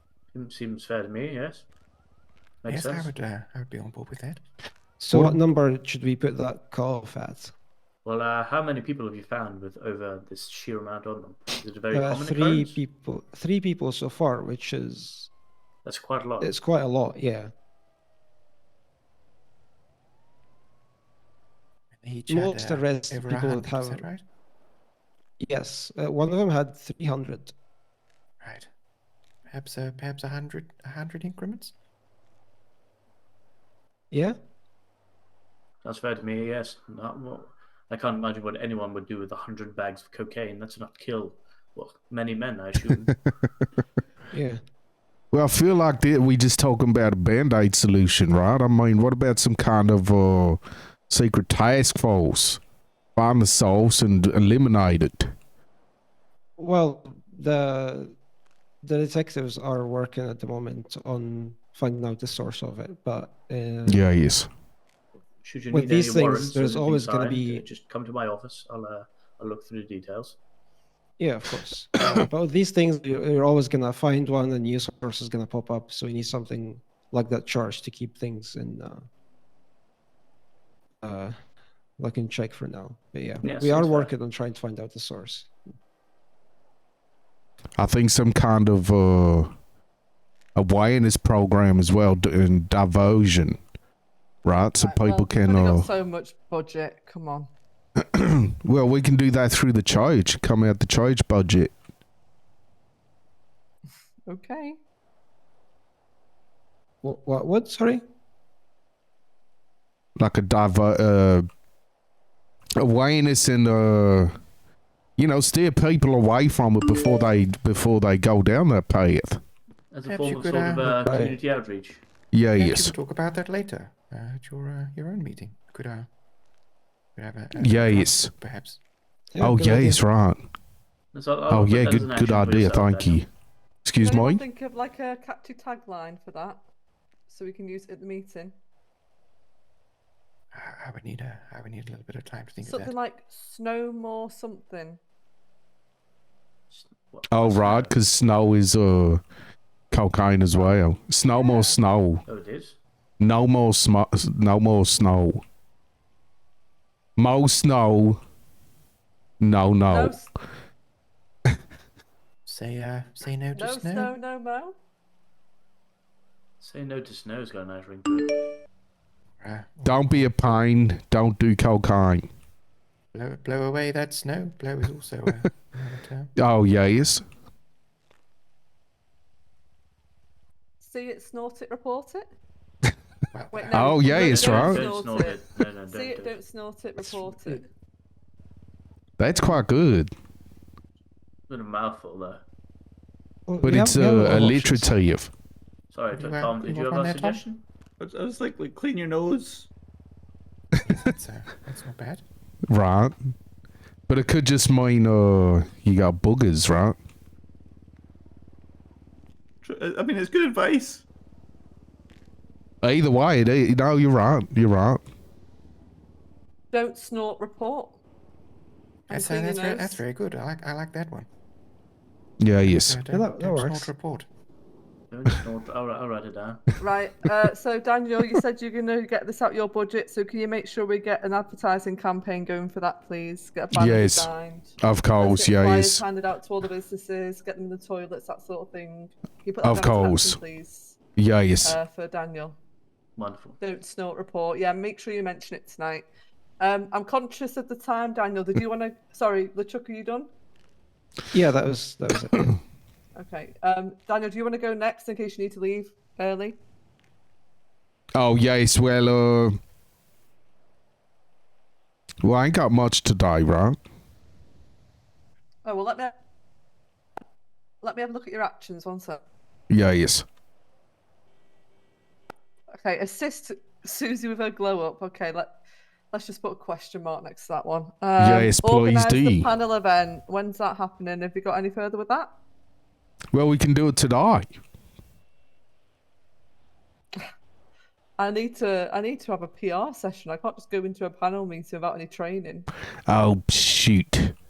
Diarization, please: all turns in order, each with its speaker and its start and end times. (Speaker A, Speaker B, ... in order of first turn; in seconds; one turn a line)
Speaker A: 0.3-1.7
Speaker A: 2.6-3.1
Speaker B: 2.7-4.4
Speaker C: 5.0-7.5
Speaker D: 5.1-5.4
Speaker A: 8.0-12.8
Speaker C: 11.9-15.3
Speaker A: 15.8-16.6
Speaker C: 16.4-17.5
Speaker B: 21.9-24.2
Speaker C: 22.3-24.1
Speaker C: 25.4-27.5
Speaker B: 28.4-28.7
Speaker B: 29.5-31.7
Speaker C: 34.1-34.4
Speaker A: 35.8-43.1
Speaker C: 44.3-44.6
Speaker D: 45.3-52.6
Speaker D: 53.1-55.3
Speaker C: 56.6-58.1
Speaker C: 58.8-64.0
Speaker D: 63.9-64.5
Speaker A: 65.4-70.4
Speaker C: 65.7-67.7
Speaker C: 71.2-79.1
Speaker C: 81.0-81.3
Speaker C: 82.0-85.5
Speaker A: 83.4-84.1
Speaker D: 87.8-89.5
Speaker D: 90.5-93.6
Speaker D: 94.4-95.9
Speaker E: 94.8-97.5
Speaker D: 98.0-101.7
Speaker E: 104.3-104.8
Speaker C: 107.0-108.0
Speaker D: 110.2-111.5
Speaker D: 112.8-114.3
Speaker D: 115.2-119.4
Speaker A: 119.9-122.0
Speaker B: 120.0-121.0
Speaker C: 120.9-121.4
Speaker D: 122.3-122.9
Speaker B: 122.5-126.1
Speaker B: 127.2-128.8
Speaker D: 127.5-128.3
Speaker C: 129.3-130.0
Speaker D: 129.4-130.4
Speaker A: 131.1-133.2
Speaker D: 131.5-133.3
Speaker D: 133.8-134.4
Speaker E: 134.0-136.6
Speaker E: 137.3-138.6
Speaker B: 140.5-142.9
Speaker E: 142.6-145.0
Speaker A: 146.7-147.9
Speaker D: 147.3-149.2
Speaker D: 149.9-152.2
Speaker E: 150.5-150.8
Speaker E: 151.3-151.8
Speaker A: 152.3-152.8
Speaker D: 153.2-155.4
Speaker D: 157.2-158.2
Speaker D: 159.4-160.2
Speaker E: 159.9-160.3
Speaker B: 162.4-164.1
Speaker E: 163.5-164.7
Speaker A: 166.6-168.3
Speaker B: 169.4-170.6
Speaker D: 169.8-172.3
Speaker B: 173.1-176.3
Speaker D: 176.4-177.2
Speaker E: 180.8-182.3
Speaker B: 183.3-183.9
Speaker E: 183.5-187.7
Speaker D: 183.7-184.8
Speaker A: 184.1-186.4
Speaker D: 189.2-190.1
Speaker A: 191.5-192.4
Speaker C: 193.5-195.0
Speaker D: 193.6-195.3
Speaker A: 195.9-197.6
Speaker B: 196.1-197.4
Speaker F: 198.0-199.7
Speaker B: 200.8-202.2
Speaker D: 202.7-203.2
Speaker D: 204.1-207.0
Speaker F: 209.6-211.0
Speaker D: 212.8-215.0
Speaker E: 216.7-218.0
Speaker E: 219.1-220.0
Speaker B: 219.1-221.3
Speaker D: 222.4-223.0
Speaker B: 222.6-224.3
Speaker C: 223.1-223.9
Speaker A: 225.1-226.7
Speaker E: 226.8-241.0
Speaker D: 233.7-236.0
Speaker D: 239.6-240.4
Speaker D: 241.2-241.8
Speaker E: 241.6-242.6
Speaker A: 243.2-243.6
Speaker E: 243.6-246.1
Speaker E: 246.6-250.3
Speaker C: 251.3-252.6
Speaker E: 253.2-256.6
Speaker D: 258.1-259.5
Speaker D: 262.2-263.8
Speaker E: 265.6-266.1
Speaker E: 267.8-269.2
Speaker D: 269.7-270.2
Speaker E: 272.7-275.5
Speaker E: 276.1-282.3
Speaker D: 278.2-279.5
Speaker D: 283.3-284.5
Speaker E: 288.2-292.6
Speaker D: 293.1-294.3